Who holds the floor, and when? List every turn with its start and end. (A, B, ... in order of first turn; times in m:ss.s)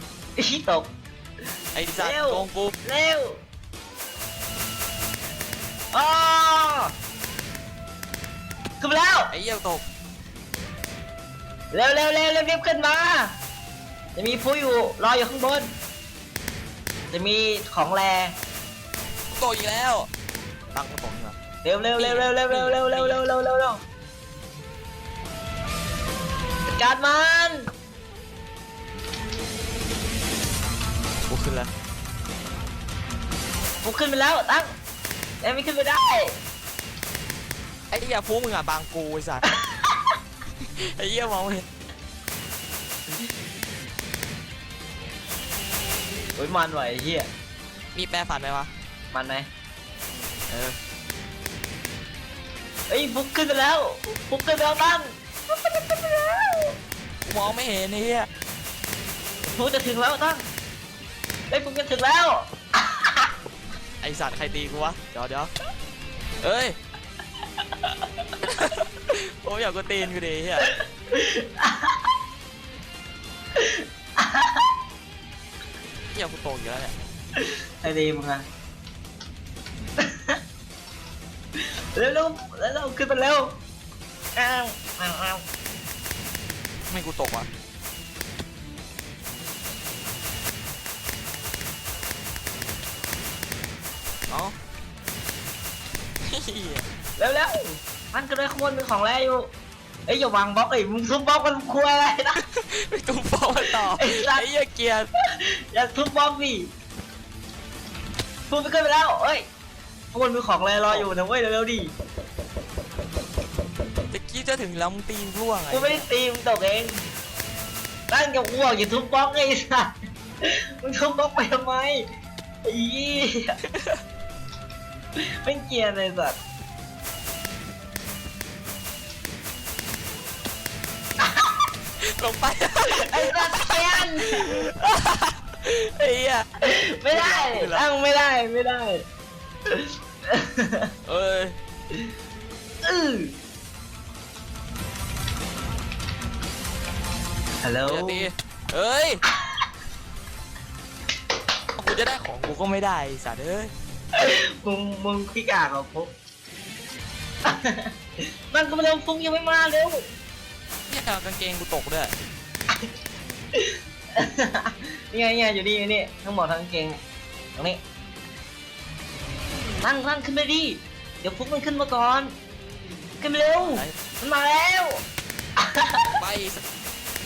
0:00.4-0:00.9 A
0:01.7-0:02.7 B
0:02.0-0:03.4 A
0:05.9-0:06.9 A
0:08.8-0:09.3 A
0:09.3-0:09.8 B
0:11.7-0:13.4 A
0:14.1-0:15.7 A
0:17.1-0:18.3 A
0:19.3-0:20.1 B
0:20.7-0:21.4 B
0:21.6-0:23.8 A
0:22.0-0:23.2 B
0:26.7-0:27.7 A
0:31.3-0:31.7 B
0:33.8-0:34.7 A
0:35.4-0:36.4 A
0:37.9-0:39.5 B
0:39.5-0:40.0 A
0:40.8-0:41.6 B
0:46.4-0:47.3 A
0:47.9-0:48.7 B
0:49.1-0:49.5 A
0:50.5-0:50.8 B
0:52.9-0:56.8 A
0:57.2-0:58.3 B
0:59.5-1:00.4 A
1:01.5-1:03.3 A
1:04.0-1:05.5 B
1:06.4-1:06.8 B
1:08.4-1:10.7 B
1:10.7-1:12.0 A
1:13.6-1:14.6 A
1:16.1-1:16.9 B
1:17.4-1:18.4 A
1:20.0-1:20.4 A
1:21.6-1:23.5 A
1:24.4-1:25.4 A
1:26.9-1:27.5 B
1:34.3-1:34.5 B
1:36.2-1:36.8 B
1:37.2-1:39.5 A
1:40.1-1:42.4 A
1:42.4-1:45.1 B
1:43.7-1:44.4 A
1:45.3-1:46.7 A
1:48.5-1:49.4 A
1:50.1-1:51.9 A
1:50.8-1:51.1 B
1:54.1-1:56.0 B
1:55.7-1:57.0 A
1:58.1-1:59.9 A
2:00.4-2:02.0 A
2:02.6-2:03.6 A
2:03.7-2:04.0 B
2:05.4-2:06.4 A
2:11.2-2:11.5 A
2:12.0-2:16.5 B
2:12.9-2:14.5 A
2:16.6-2:19.0 A
2:17.1-2:17.8 B
2:19.7-2:20.9 A
2:21.0-2:21.6 B
2:22.8-2:23.3 A
2:27.6-2:28.3 A
2:27.8-2:29.2 B
2:31.8-2:33.7 B
2:34.1-2:36.1 A
2:37.4-2:37.9 A
2:38.5-2:40.1 A
2:40.9-2:42.1 B
2:43.6-2:47.0 A
2:49.8-2:52.3 A
2:53.2-2:55.0 A
2:53.6-2:53.9 B
2:55.6-2:56.1 A
2:56.1-2:56.6 B